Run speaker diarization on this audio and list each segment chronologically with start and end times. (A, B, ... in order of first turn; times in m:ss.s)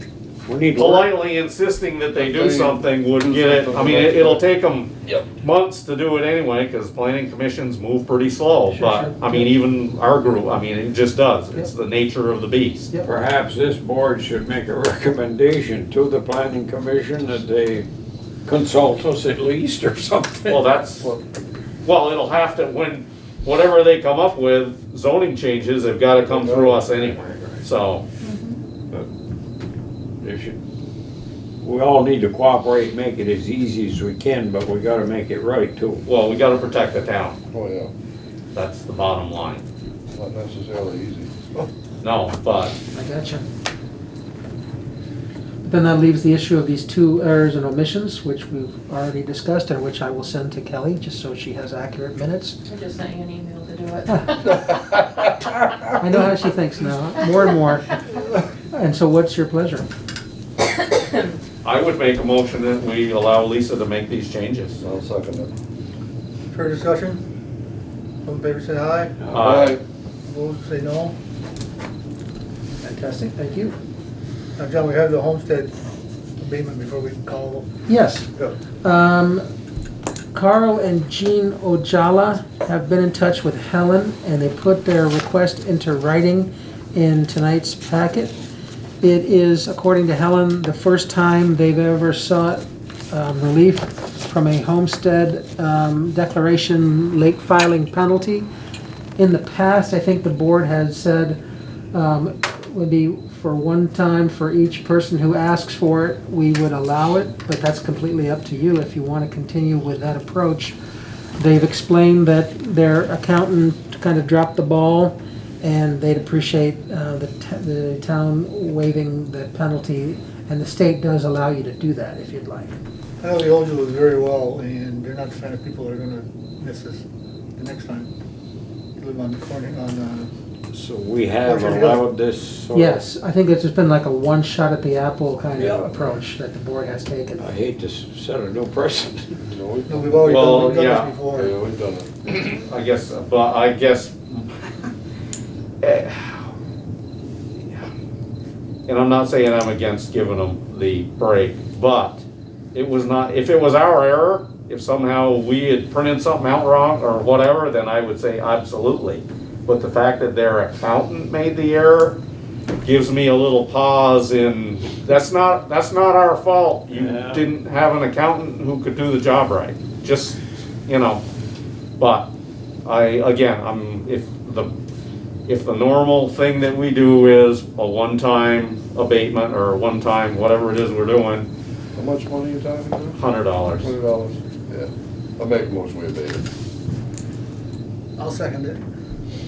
0:00.4-0:01.1 A
0:00.7-0:12.9 B
0:02.2-0:04.4 C
0:08.7-0:09.5 D
0:13.0-0:17.9 A
0:18.4-0:20.6 A
0:20.4-0:21.1 B
0:21.8-0:28.0 B
0:26.3-0:26.8 C
0:26.8-0:27.7 A
0:28.2-0:28.6 E
0:30.2-0:30.6 A
0:31.6-0:36.0 A
0:36.0-0:37.4 B
0:37.5-0:37.9 C
0:38.5-0:39.6 B
0:40.1-0:41.7 C
0:42.0-0:42.8 B
0:42.9-0:43.4 D
0:45.6-0:52.6 D
0:52.7-0:54.6 E
0:54.1-0:54.5 D
0:56.0-0:58.0 D
0:58.7-0:59.9 D
1:01.6-1:04.8 B
1:04.8-1:05.5 C
1:06.5-1:07.2 F
1:08.2-1:09.2 F
1:09.3-1:09.8 B
1:09.3-1:09.8 C
1:10.2-1:11.1 F
1:12.8-1:13.8 D
1:14.6-1:15.7 F
1:16.4-1:17.7 F
1:17.9-1:18.3 D
1:18.8-1:19.4 D
1:20.3-1:28.4 D
1:29.0-1:38.5 D
1:39.2-1:41.4 D
1:41.9-1:50.7 D
1:51.4-2:02.8 D
2:03.2-2:07.0 F
2:07.6-2:08.1 F
2:09.0-2:10.3 F
2:10.7-2:13.0 A
2:11.4-2:12.0 F
2:12.7-2:17.4 D
2:17.4-2:19.4 A
2:19.5-2:20.8 C
2:19.9-2:21.5 F
2:20.2-2:21.1 B
2:21.3-2:22.2 C
2:22.4-2:24.9 B
2:25.8-2:26.5 B
2:27.6-2:27.9 B
2:28.9-2:32.2 B
2:32.7-2:42.2 B
2:42.8-2:51.2 B
2:46.9-2:47.5 A
2:52.0-2:52.3 B
2:52.8-2:54.7 B
2:55.5-3:01.5 B
3:01.9-3:06.4 C
3:03.2-3:03.9 B
3:08.2-3:08.8 F